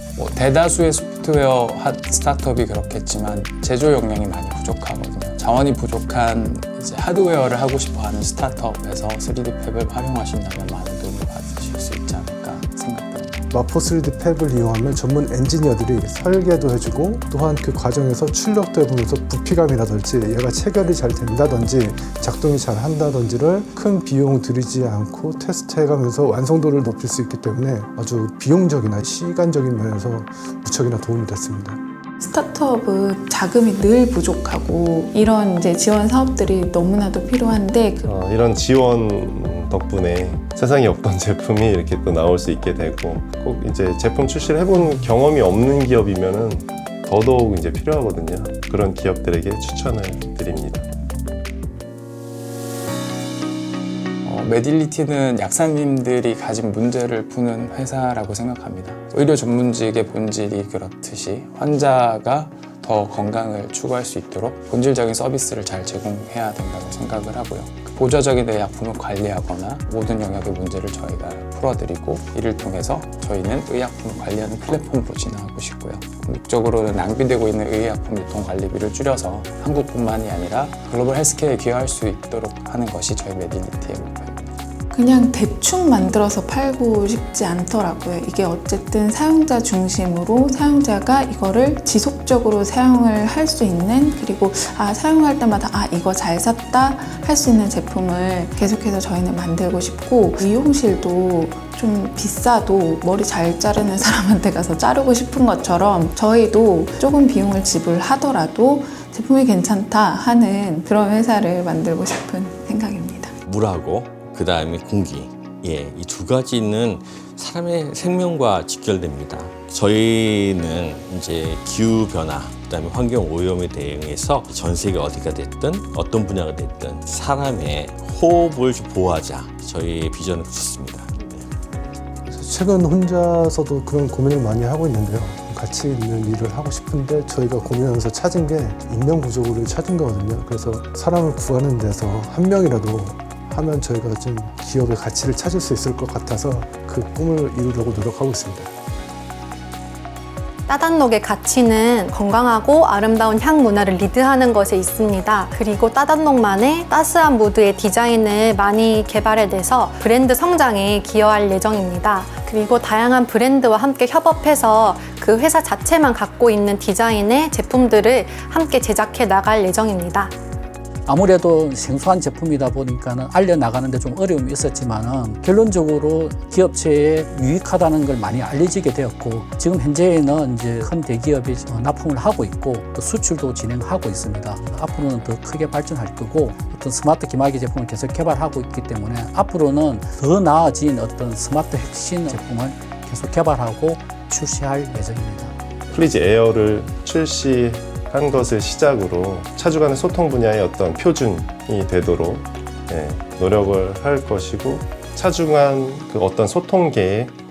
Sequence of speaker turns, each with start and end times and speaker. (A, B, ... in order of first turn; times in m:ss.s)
0:00.2-0:13.4 A
0:13.5-0:31.8 B
0:32.2-0:38.1 C
0:38.1-0:50.9 D
0:54.2-1:24.5 A
1:24.9-1:53.3 C
1:53.4-2:11.5 E
2:12.3-2:28.7 B
2:30.7-2:50.3 F
2:51.1-3:07.0 G
3:08.0-3:09.3 G
3:09.9-3:13.2 G
3:13.7-3:15.5 G
3:15.9-3:27.3 D